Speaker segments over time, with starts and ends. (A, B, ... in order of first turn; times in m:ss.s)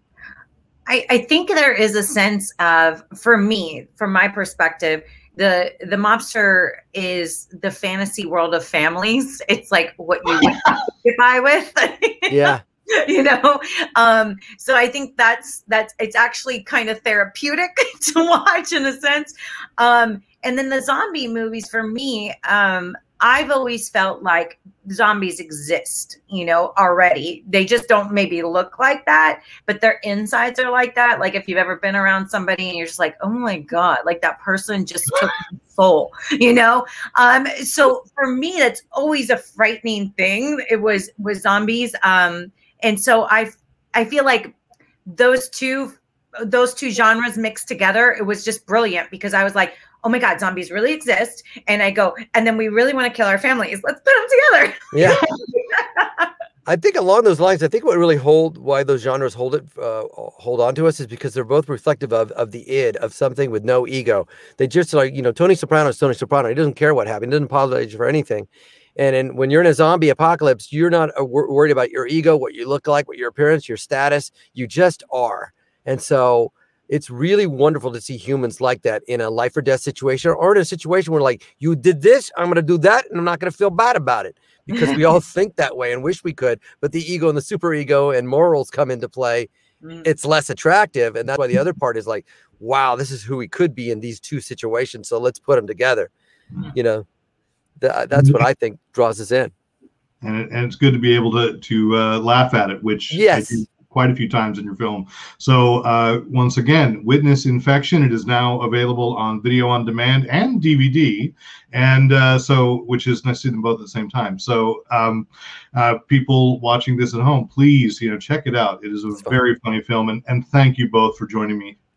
0:00.9-0:44.5 A
0:12.3-0:12.6 B
0:45.0-0:56.3 A
0:54.9-0:55.2 B
0:56.6-1:29.5 B
1:29.8-1:30.1 A
1:30.0-1:36.1 B
1:36.7-1:37.0 B
1:37.8-1:39.5 B
1:38.1-1:38.4 C
1:40.2-2:01.8 C
1:43.1-1:43.6 B